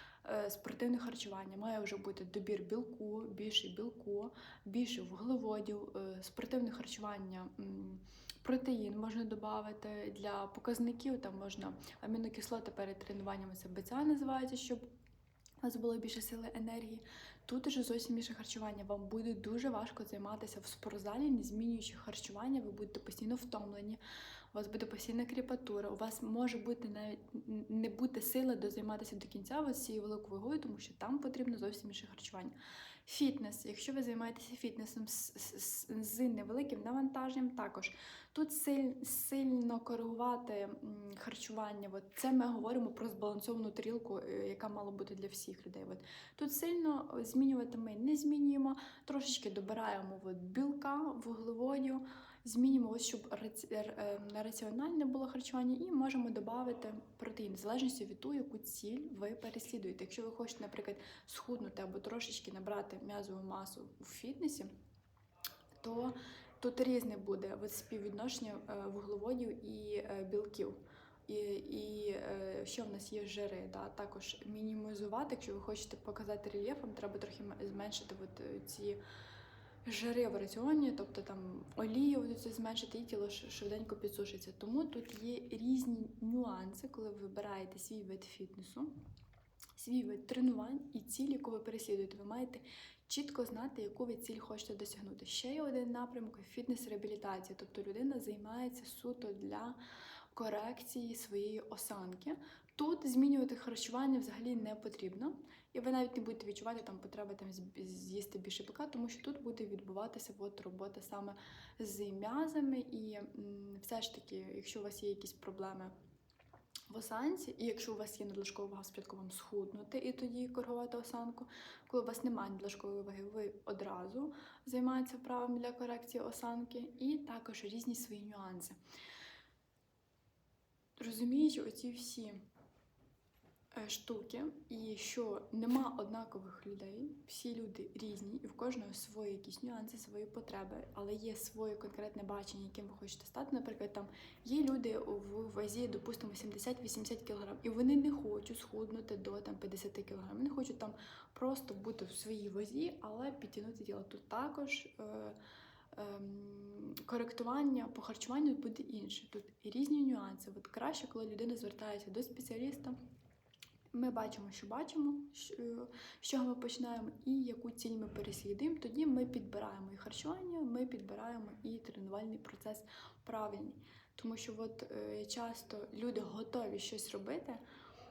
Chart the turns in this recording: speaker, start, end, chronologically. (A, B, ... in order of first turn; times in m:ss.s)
0:00.2-0:14.8 A
0:15.6-0:24.0 A
0:24.5-0:32.6 A
0:33.1-1:04.7 A
1:05.8-1:19.0 A
1:19.9-1:28.9 A
1:29.8-1:39.8 A
1:40.3-1:55.9 A
1:56.9-2:08.8 A
2:11.0-2:12.4 A
2:13.8-2:35.4 A
2:35.9-2:43.0 A
2:43.9-2:57.6 A